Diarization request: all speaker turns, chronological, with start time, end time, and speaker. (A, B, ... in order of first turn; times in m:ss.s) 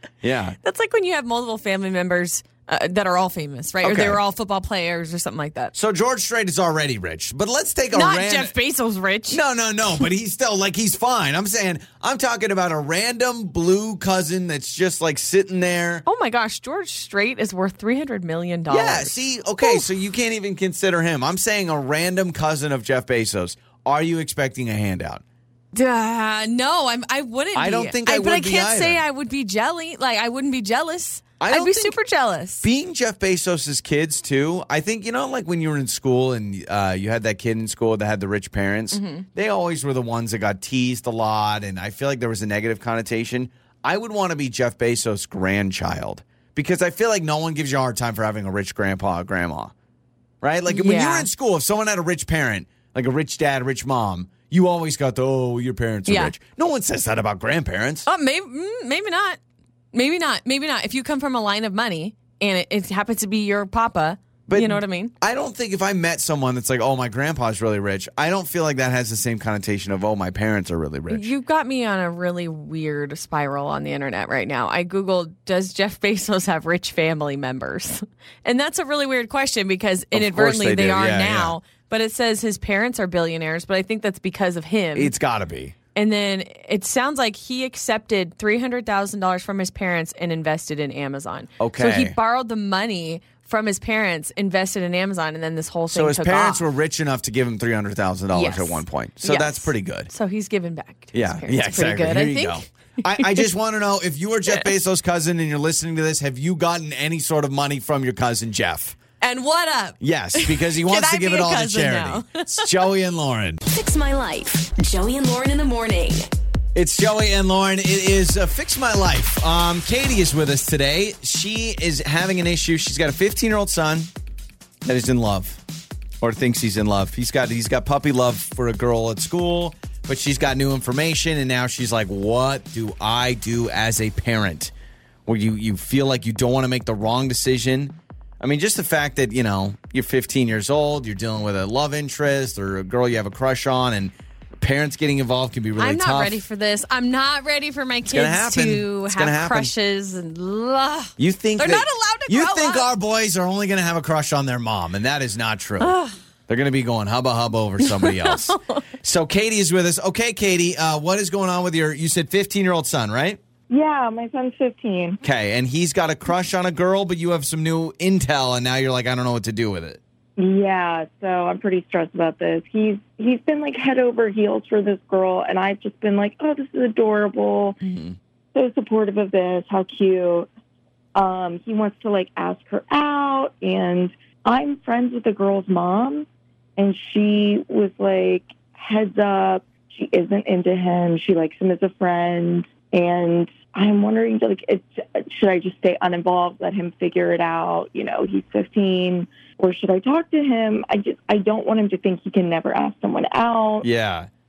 0:00.2-0:00.6 A
0:00.6-0:05.7 B
0:03.8-0:04.2 A
0:05.7-0:08.5 A
0:07.9-0:09.4 B
0:09.3-0:16.0 A
0:16.0-0:19.8 B
0:18.7-0:25.2 A
0:25.7-0:32.7 B
0:27.5-0:29.0 A
0:31.4-0:32.0 A
0:32.6-0:49.7 A
0:38.9-0:39.2 B
0:50.4-0:58.1 A
0:50.7-0:51.3 B
0:56.1-0:56.3 B
0:58.0-0:59.4 B
0:59.9-1:05.1 B
1:04.5-1:11.3 A
1:11.1-1:25.1 B
1:20.1-1:21.5 A
1:24.9-1:25.7 A
1:25.9-1:36.7 B
1:31.6-1:32.2 A
1:35.9-1:40.1 A
1:38.3-1:43.4 B
1:41.1-1:49.0 A
1:49.2-1:52.8 B
1:50.0-1:53.6 A
1:53.7-1:56.3 C
1:56.7-2:04.1 A
2:04.8-2:05.6 A
2:06.2-2:14.7 A
2:15.2-2:26.4 A
2:25.8-2:32.9 B
2:28.0-2:29.7 A
2:31.2-2:35.9 A
2:35.8-2:36.2 B
2:36.5-2:43.4 A
2:37.8-2:38.8 B
2:43.7-2:45.2 D
2:45.2-2:50.0 A
2:50.4-2:57.8 D
2:57.8-2:58.2 A
2:58.5-3:00.5 D
3:01.1-3:23.9 D
3:23.8-3:24.3 A